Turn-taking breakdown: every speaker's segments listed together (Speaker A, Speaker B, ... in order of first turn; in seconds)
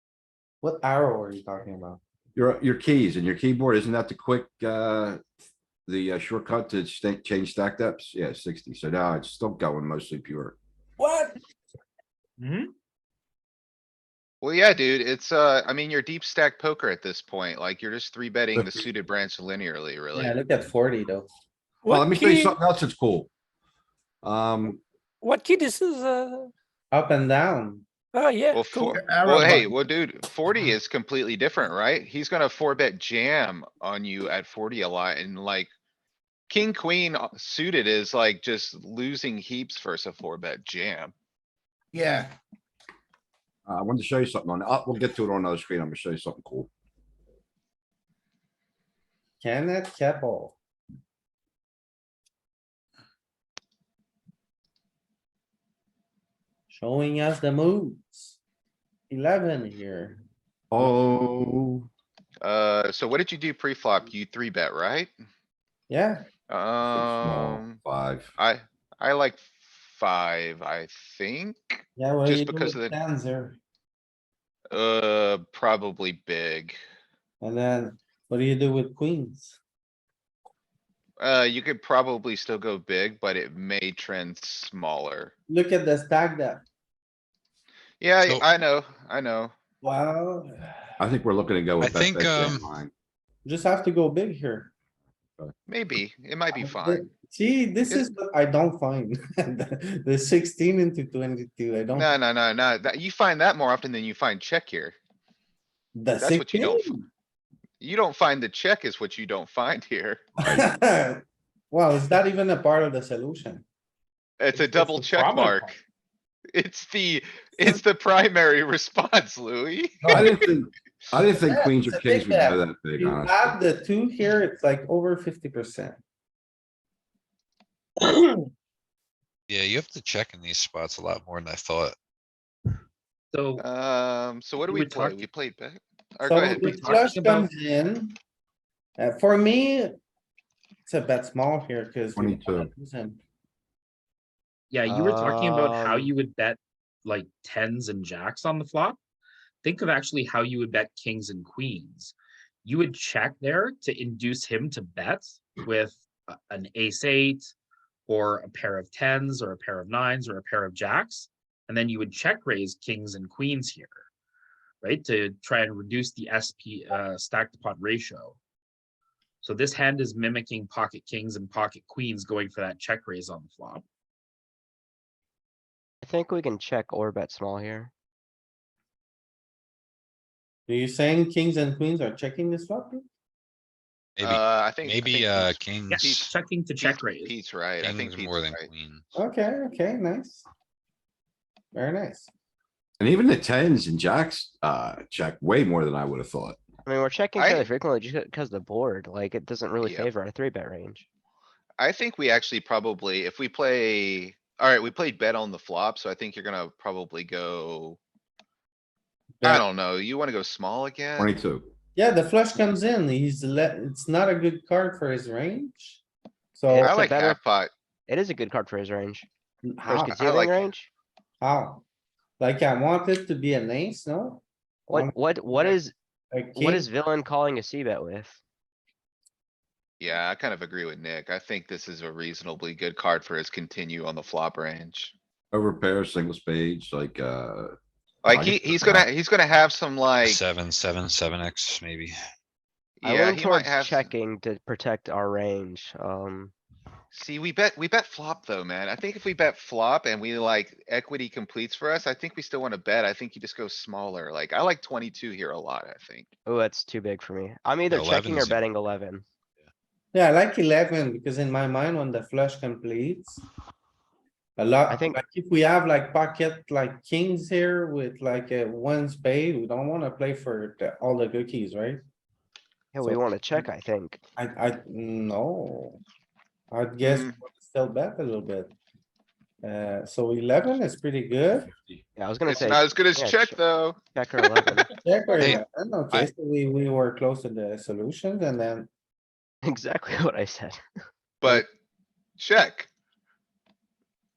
Speaker A: 0.6-2.0, 20.1-21.3, 26.9-27.8, 49.4-50.6, 56.7-58.4, 59.1-60.2, 65.9-66.3, 72.0-73.6, 77.4-79.6, 85.5-86.6, 89.8-90.9, 93.4-94.7, 96.5-102.1, 105.9-107.0, 110.4-113.6, 121.3-126.0, 136.2-138.2, 139.0-140.0, 140.9-143.2, 180.7-183.0, 189.1-190.5, 191.7-192.3, 211.9-216.0, 216.5-217.0, 219.6-220.1, 221.4-221.8, 222.4-225.8, 226.3-226.9, 260.1-263.4, 264.6-272.0, 273.0-273.6, 274.4-276.0, 276.7-278.7, 279.6-281.7, 284.9-288.9
Speaker B: 2.3-5.2, 5.9-10.6, 18.5-18.8, 21.9-23.3, 24.2-24.8, 43.7-46.7, 60.7-61.9, 66.9-68.3, 91.0-92.9, 120.0-123.6, 142.1-142.7, 193.0-196.6, 211.2-211.7, 235.5-237.8, 238.3-238.9
Speaker C: 11.0-11.4, 21.8-22.6, 25.2-26.5, 28.1-29.2
Speaker D: 12.4-12.7, 114.5-115.8, 133.3-133.6, 134.6-135.2, 136.6-137.5, 144.7-149.0, 149.6-157.5, 158.1-164.0, 164.8-168.4, 169.4-173.8, 185.9-187.3
Speaker E: 14.4-20.4, 28.5-35.7, 36.5-41.1, 62.4-65.1, 66.5-67.8, 68.4-72.9, 74.7-76.8, 81.2-85.3, 88.0-89.5, 95.7-97.1, 101.9-104.9, 106.2-106.9, 107.8-110.3, 114.4-115.7, 116.5-120.3, 133.6-137.1, 184.2-188.7, 197.3-197.7, 199.8-200.1, 201.8-208.0, 209.4-211.3, 216.8-217.7, 220.1-220.7, 230.0-235.1, 238.2-240.4, 243.0-244.1, 247.1-256.3, 277.0-277.4, 282.5-284.0, 291.4-291.7, 292.4-292.9
Speaker F: 91.8-92.7, 129.5-131.9, 184.2-186.3, 187.8-189.0, 240.2-242.1, 257.9-258.6, 285.4-286.3
Speaker G: 144.9-146.1, 176.0-177.9, 196.8-201.0, 216.7-217.4, 218.1-219.3, 219.9-220.9, 224.9-225.9, 226.5-228.4, 243.1-246.5, 256.4-259.2, 264.9-265.2, 272.9-274.2, 282.2-284.9, 289.7-290.8